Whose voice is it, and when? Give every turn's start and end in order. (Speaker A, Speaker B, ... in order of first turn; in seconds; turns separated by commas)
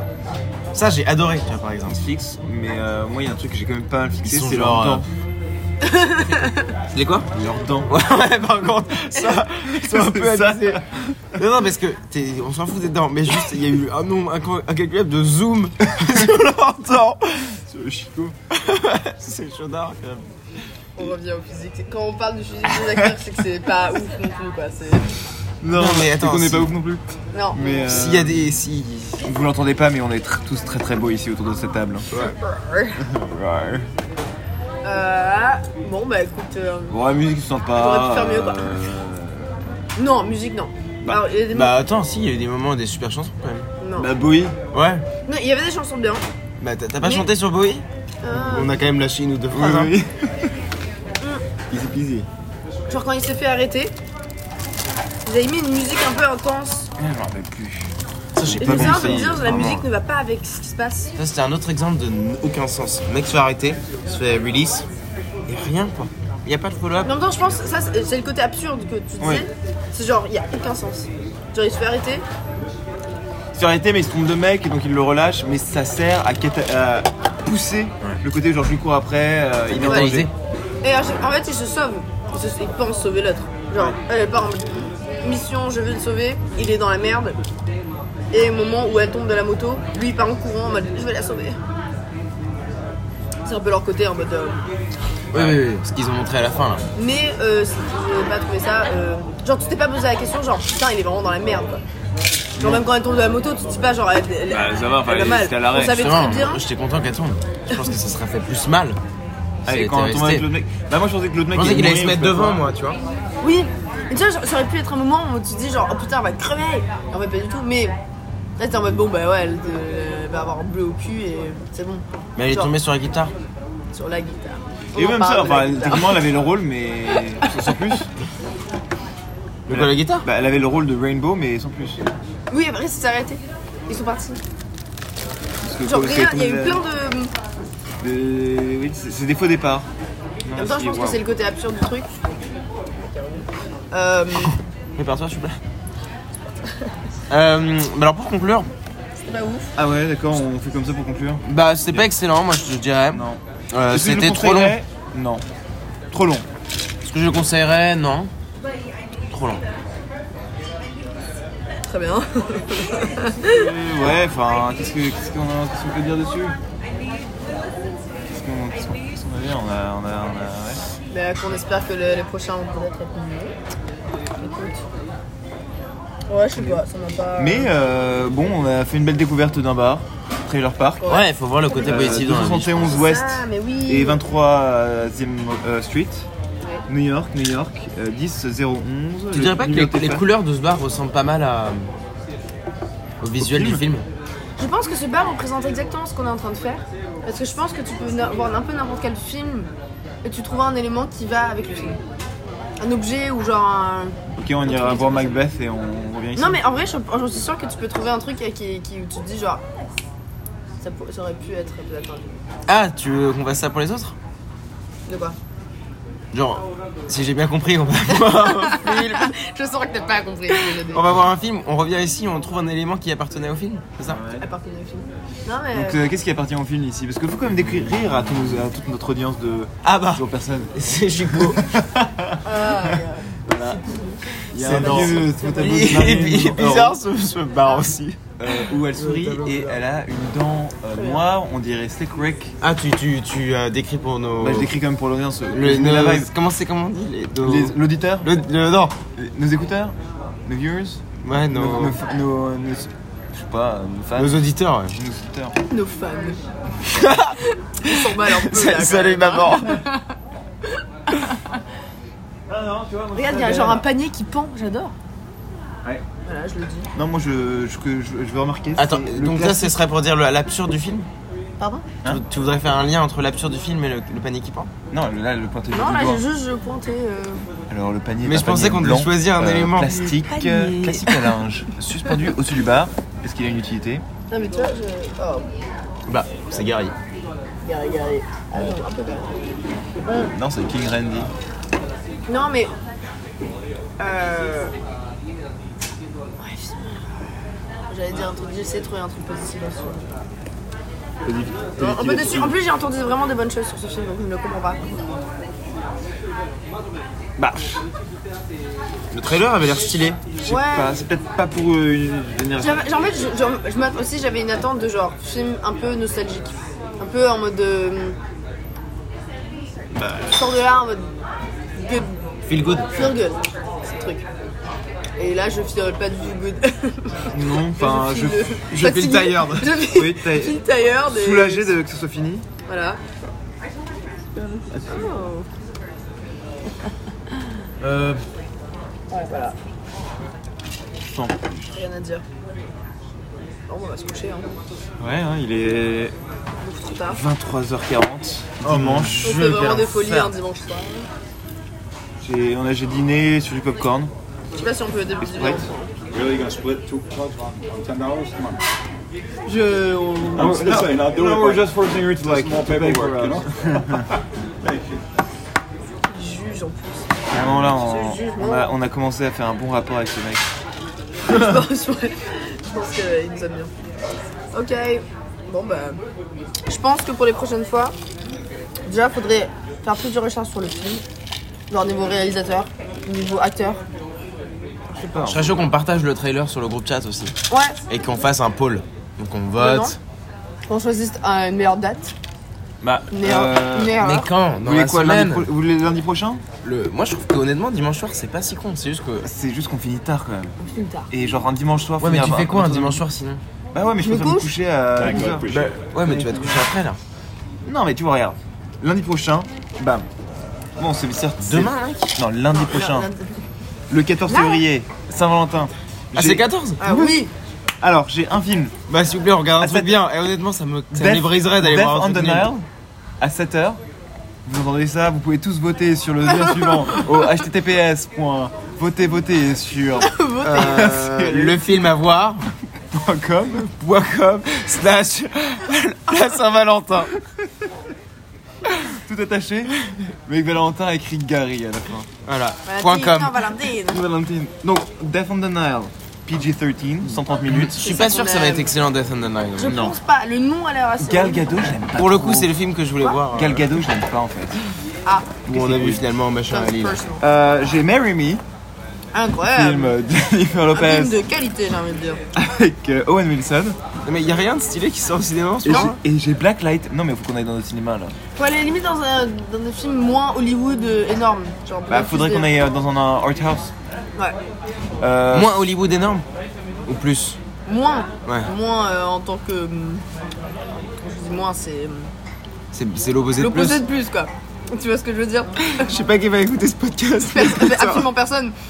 Speaker A: 0.7-2.0, Speaker B: 1.9-5.1, Speaker A: 4.2-5.1, Speaker C: 5.8-6.7, Speaker A: 6.9-7.3, Speaker B: 7.3-7.9, Speaker A: 7.9-10.8, Speaker B: 9.6-11.2, Speaker A: 11.3-17.2, Speaker B: 15.8-18.4, Speaker A: 18.5-20.3, Speaker C: 21.0-25.1, Speaker B: 22.9-23.1, Speaker B: 25.6-27.0, Speaker A: 25.7-26.7, Speaker C: 27.3-27.9, Speaker B: 27.5-28.5, Speaker A: 27.9-29.2, Speaker B: 29.2-32.1, Speaker C: 32.1-33.0, Speaker B: 33.0-33.9, Speaker C: 34.8-37.0, Speaker B: 36.9-39.5, Speaker C: 37.7-38.8, Speaker C: 40.0-41.8, Speaker A: 41.5-43.7, Speaker C: 43.8-44.1, Speaker B: 44.0-44.5, Speaker A: 44.7-45.1, Speaker C: 45.3-46.2, Speaker A: 46.6-49.9, Speaker C: 47.0-47.3, Speaker C: 48.2-48.7, Speaker B: 49.5-50.5, Speaker B: 51.7-52.3, Speaker C: 52.9-53.9, Speaker C: 55.2-56.9, Speaker B: 57.0-59.8, Speaker A: 58.4-59.8, Speaker C: 58.6-61.1, Speaker A: 61.2-64.9, Speaker A: 65.5-67.1, Speaker C: 67.0-72.2, Speaker B: 69.2-69.5, Speaker B: 73.5-80.3, Speaker A: 79.7-80.3, Speaker C: 79.8-80.1, Speaker C: 80.8-87.4, Speaker C: 88.3-91.6, Speaker C: 93.5-94.6, Speaker A: 95.3-96.8, Speaker B: 95.3-95.6, Speaker C: 97.0-101.8, Speaker B: 102.6-102.8, Speaker C: 102.6-106.6, Speaker B: 104.5-106.0, Speaker A: 105.9-109.0, Speaker A: 109.7-110.5, Speaker B: 109.7-112.6, Speaker A: 111.5-113.0, Speaker C: 113.4-118.0, Speaker C: 118.6-122.7, Speaker A: 122.4-123.3, Speaker C: 123.9-126.3, Speaker B: 125.0-128.1, Speaker C: 127.4-127.8, Speaker A: 129.7-130.3, Speaker B: 129.7-132.1, Speaker C: 132.5-134.4, Speaker B: 135.6-136.8, Speaker C: 135.8-137.3, Speaker B: 138.0-139.9, Speaker B: 140.5-141.2, Speaker C: 140.6-142.2, Speaker C: 143.0-144.6, Speaker A: 145.0-145.6, Speaker A: 147.3-148.7, Speaker C: 149.2-149.7, Speaker B: 149.8-152.1, Speaker A: 151.4-154.8, Speaker B: 153.1-155.4, Speaker B: 156.1-156.4, Speaker A: 157.0-158.3, Speaker A: 159.3-159.6, Speaker C: 161.9-163.7, Speaker B: 163.4-166.6, Speaker B: 168.3-170.8, Speaker C: 171.1-173.6, Speaker C: 174.4-174.8, Speaker C: 176.3-177.7, Speaker B: 176.5-176.8, Speaker B: 177.4-181.2, Speaker C: 181.0-184.2, Speaker A: 181.1-182.9, Speaker B: 181.8-186.3, Speaker B: 186.9-190.2, Speaker A: 189.3-191.9, Speaker A: 193.2-194.1, Speaker B: 193.4-193.8, Speaker C: 194.6-199.7, Speaker C: 200.2-202.0, Speaker C: 202.8-205.4, Speaker B: 204.4-206.6, Speaker C: 206.4-209.6, Speaker C: 210.8-212.4, Speaker A: 212.7-214.2, Speaker C: 215.1-215.4, Speaker A: 216.3-219.3, Speaker C: 218.2-221.1, Speaker A: 220.5-224.2, Speaker B: 224.1-224.5, Speaker C: 224.4-226.0, Speaker B: 225.7-233.8, Speaker A: 229.8-231.7, Speaker C: 232.4-235.8, Speaker B: 234.5-237.0, Speaker A: 234.5-239.8, Speaker B: 238.4-242.5, Speaker A: 242.6-244.7, Speaker B: 244.4-246.3, Speaker A: 245.5-249.0, Speaker B: 247.4-248.3, Speaker B: 249.2-249.9, Speaker B: 250.5-255.6, Speaker A: 251.2-252.0, Speaker A: 254.2-255.0, Speaker C: 255.7-256.4, Speaker A: 256.9-259.8, Speaker C: 257.4-260.1, Speaker C: 260.8-261.4, Speaker B: 262.5-263.9, Speaker C: 263.1-264.9, Speaker C: 266.2-266.9, Speaker B: 266.9-269.8, Speaker A: 268.8-271.1, Speaker C: 271.6-271.9, Speaker A: 272.1-274.7, Speaker B: 274.9-276.2, Speaker C: 275.7-277.4, Speaker B: 277.7-284.0, Speaker A: 278.2-281.2, Speaker C: 280.3-281.0, Speaker C: 284.3-285.5, Speaker A: 286.1-286.9, Speaker C: 287.6-289.4, Speaker C: 290.1-290.3, Speaker B: 290.2-291.3, Speaker C: 292.3-292.7, Speaker C: 294.0-294.7, Speaker C: 296.4-297.2, Speaker C: 297.9-300.2, Speaker B: 301.2-302.6, Speaker C: 301.8-305.0, Speaker B: 307.4-307.8, Speaker A: 309.1-310.2, Speaker B: 310.4-312.9, Speaker C: 310.4-310.9, Speaker C: 312.6-318.2, Speaker C: 320.2-321.1, Speaker C: 321.8-322.2, Speaker A: 322.5-323.2, Speaker C: 322.9-324.3, Speaker C: 325.2-331.8, Speaker B: 327.3-328.9, Speaker A: 328.7-329.6, Speaker B: 329.8-332.5, Speaker C: 332.7-333.0, Speaker C: 334.4-335.5, Speaker B: 334.7-335.2, Speaker A: 337.8-338.2, Speaker C: 339.1-339.6, Speaker B: 341.1-341.7, Speaker C: 341.7-342.2, Speaker C: 343.7-344.6, Speaker B: 345.0-346.1, Speaker C: 346.6-347.2, Speaker B: 347.1-349.3, Speaker A: 348.6-350.3, Speaker C: 349.2-351.1, Speaker B: 352.2-354.1, Speaker C: 354.6-355.9, Speaker B: 355.2-355.7, Speaker D: 356.1-358.6, Speaker C: 359.5-360.8, Speaker D: 360.3-365.1, Speaker B: 360.4-364.1, Speaker C: 366.1-368.7, Speaker B: 367.3-370.4, Speaker C: 371.3-373.7, Speaker C: 374.5-376.0, Speaker C: 376.7-377.9, Speaker C: 378.9-381.0, Speaker C: 381.7-383.8, Speaker B: 384.9-385.5, Speaker A: 385.2-387.4, Speaker C: 387.5-387.8, Speaker A: 387.9-390.0, Speaker C: 389.6-390.0, Speaker C: 390.7-392.1, Speaker B: 392.8-394.0, Speaker C: 393.1-394.3, Speaker A: 393.9-395.5, Speaker B: 394.6-396.4, Speaker A: 396.6-399.3, Speaker B: 399.2-400.6, Speaker C: 400.6-401.1, Speaker B: 401.1-403.0, Speaker A: 402.0-403.4, Speaker B: 403.7-405.5, Speaker C: 404.0-404.5, Speaker D: 405.0-406.4, Speaker A: 405.5-407.0, Speaker B: 406.1-406.4, Speaker B: 407.7-410.1, Speaker B: 410.8-413.1, Speaker A: 411.4-412.1, Speaker C: 412.6-413.4, Speaker B: 413.9-417.1, Speaker C: 414.3-414.6, Speaker A: 416.1-416.9, Speaker C: 416.8-417.3, Speaker B: 417.8-418.8, Speaker A: 418.9-422.5, Speaker B: 419.6-419.9, Speaker B: 420.9-422.6, Speaker B: 423.2-423.8, Speaker B: 424.5-431.6, Speaker C: 426.3-427.3, Speaker C: 430.0-430.9, Speaker A: 430.4-432.5, Speaker B: 432.9-433.7, Speaker A: 433.6-437.1, Speaker B: 438.7-442.1, Speaker A: 442.2-443.5, Speaker C: 442.7-444.0, Speaker B: 443.9-447.8, Speaker A: 447.1-449.9, Speaker C: 447.8-448.7, Speaker C: 449.6-451.7, Speaker B: 449.7-450.0, Speaker B: 451.0-452.5, Speaker A: 452.0-453.7, Speaker B: 453.3-454.6, Speaker C: 455.1-455.3, Speaker B: 455.5-456.0, Speaker A: 455.5-457.0, Speaker C: 456.5-457.2, Speaker B: 457.2-458.4, Speaker C: 459.1-460.0, Speaker B: 459.5-461.2, Speaker C: 460.7-462.2, Speaker B: 462.4-463.8, Speaker A: 464.1-466.0, Speaker B: 465.6-468.1, Speaker C: 468.4-472.5, Speaker B: 471.9-473.7, Speaker B: 475.0-475.7, Speaker A: 475.3-476.3, Speaker A: 476.9-477.4, Speaker C: 477.7-480.1, Speaker A: 478.3-478.5, Speaker C: 480.8-482.1, Speaker A: 482.7-483.8, Speaker C: 483.4-485.9, Speaker A: 485.8-488.1, Speaker C: 487.3-488.6